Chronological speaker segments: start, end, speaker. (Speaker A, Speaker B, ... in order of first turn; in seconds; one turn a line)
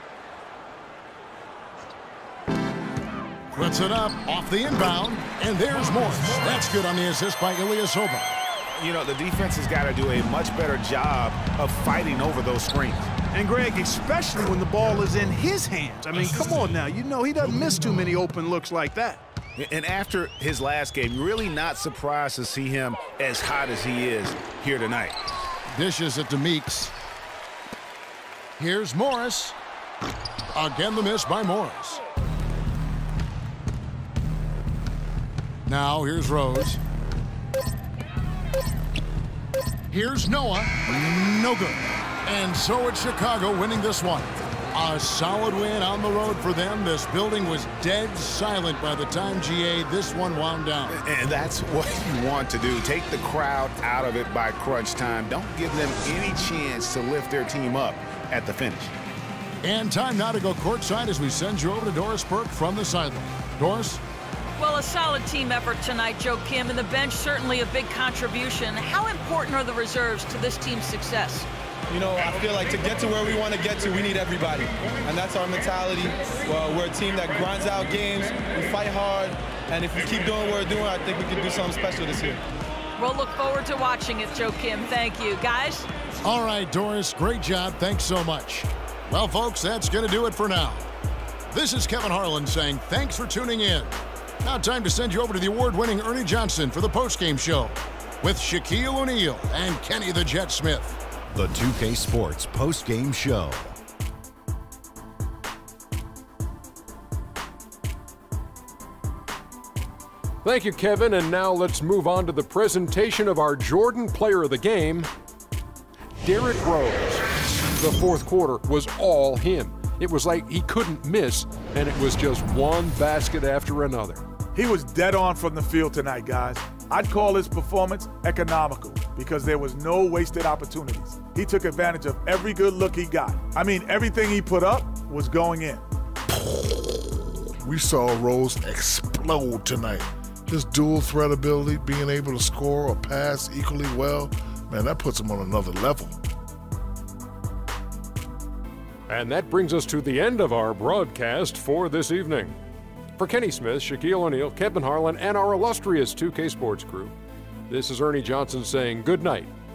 Speaker A: 3.5-8.4
Speaker B: 8.7-13.1
Speaker C: 13.3-19.2
Speaker B: 19.6-25.2
Speaker A: 25.7-26.9
Speaker A: 28.6-29.6
Speaker A: 30.5-32.0
Speaker A: 35.7-36.8
Speaker A: 39.9-51.0
Speaker B: 50.9-59.0
Speaker A: 59.6-64.0
Speaker D: 64.6-71.5
Speaker E: 71.9-82.4
Speaker D: 83.0-85.9
Speaker A: 86.2-90.9
Speaker A: 91.5-101.0
Speaker F: 101.3-103.7
Speaker G: 110.4-115.1
Speaker G: 116.2-117.2
Speaker G: 117.8-124.2
Speaker H: 124.5-135.8
Speaker I: 136.4-137.1
Speaker I: 137.6-146.2
Speaker G: 149.1-152.6
Speaker G: 153.2-157.2
Speaker G: 157.7-159.5